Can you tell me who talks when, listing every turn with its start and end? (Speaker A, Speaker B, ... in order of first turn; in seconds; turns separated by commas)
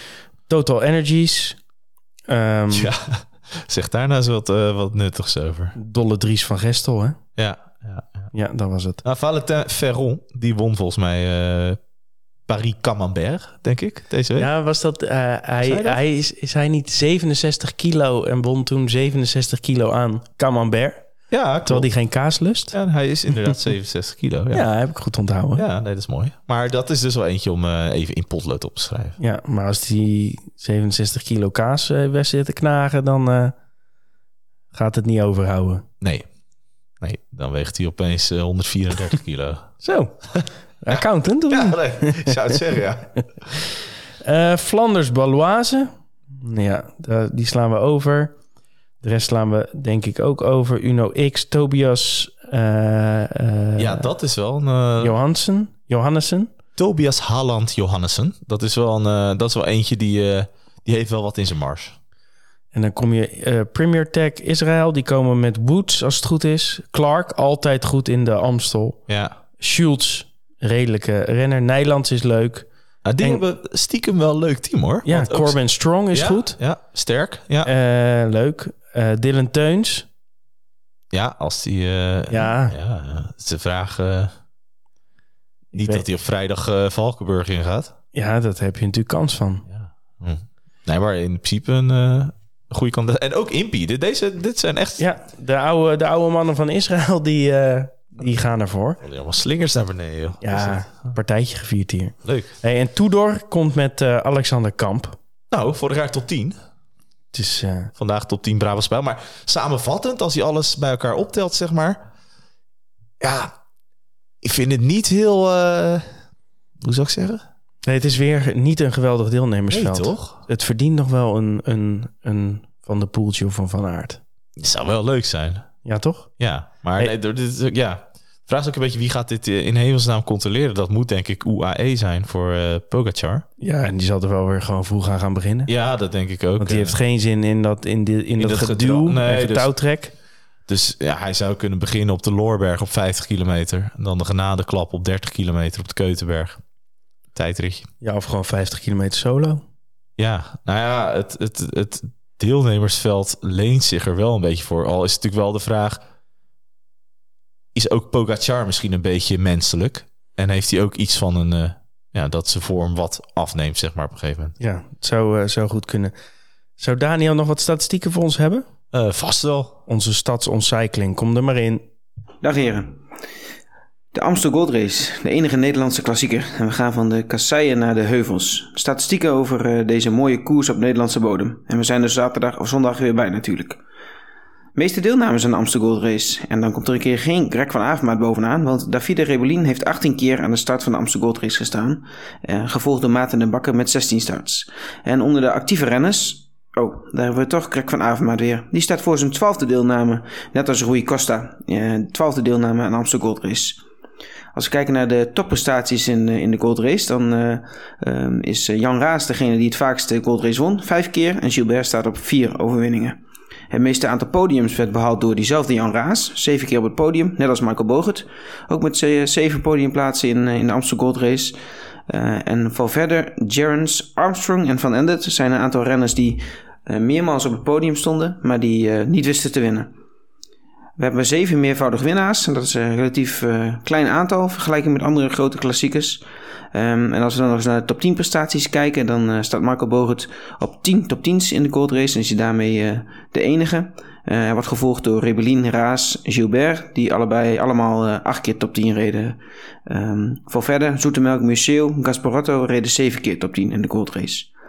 Speaker A: 0.5-1.6, Speaker A: 2.3-2.9, Speaker B: 2.7-5.7, Speaker A: 5.8-7.2, Speaker B: 7.4-8.3, Speaker A: 8.3-9.0, Speaker B: 9.0-11.8, Speaker B: 12.5-14.5, Speaker A: 14.4-21.0, Speaker B: 15.6-16.0, Speaker B: 21.3-21.9, Speaker A: 21.7-22.8, Speaker B: 22.7-24.7, Speaker A: 24.5-25.7, Speaker B: 25.6-29.2, Speaker A: 29.2-33.5, Speaker A: 34.7-35.9, Speaker B: 36.0-36.3, Speaker B: 37.0-39.7, Speaker A: 39.8-42.6, Speaker B: 40.9-43.5, Speaker A: 44.2-48.4, Speaker A: 49.0-54.1, Speaker B: 53.8-55.1, Speaker A: 55.0-56.5, Speaker B: 56.8-62.0, Speaker A: 62.7-69.0, Speaker B: 69.1-69.3, Speaker A: 69.6-72.7, Speaker B: 73.0-75.6, Speaker A: 75.0-76.6, Speaker B: 76.1-77.7, Speaker A: 77.6-80.1, Speaker B: 81.1-84.3, Speaker A: 82.3-82.8, Speaker B: 85.7-87.9, Speaker A: 85.7-86.0, Speaker A: 88.1-89.6, Speaker B: 89.7-95.0, Speaker A: 95.0-99.0, Speaker B: 99.0-101.1, Speaker A: 100.4-105.2, Speaker B: 102.2-102.5, Speaker B: 105.5-106.6, Speaker A: 107.3-107.9, Speaker B: 108.0-112.1, Speaker B: 113.2-113.5, Speaker B: 114.4-116.1, Speaker B: 116.8-117.4, Speaker A: 117.8-124.2, Speaker B: 119.7-120.4, Speaker B: 124.6-125.7, Speaker A: 125.8-126.3, Speaker B: 126.4-133.4, Speaker A: 133.6-135.7, Speaker B: 135.7-137.0, Speaker A: 136.6-140.1, Speaker B: 138.4-139.7, Speaker B: 140.7-146.6, Speaker B: 147.3-147.9, Speaker A: 148.0-149.6, Speaker B: 150.2-156.0, Speaker B: 157.7-164.6, Speaker A: 164.6-166.1, Speaker A: 166.8-168.6, Speaker B: 168.9-169.8, Speaker A: 169.9-171.8, Speaker C: 172.4-173.0, Speaker C: 174.1-183.8, Speaker C: 184.8-203.8, Speaker C: 204.5-213.2, Speaker C: 213.7-221.6, Speaker C: 222.1-229.9, Speaker C: 231.0-254.5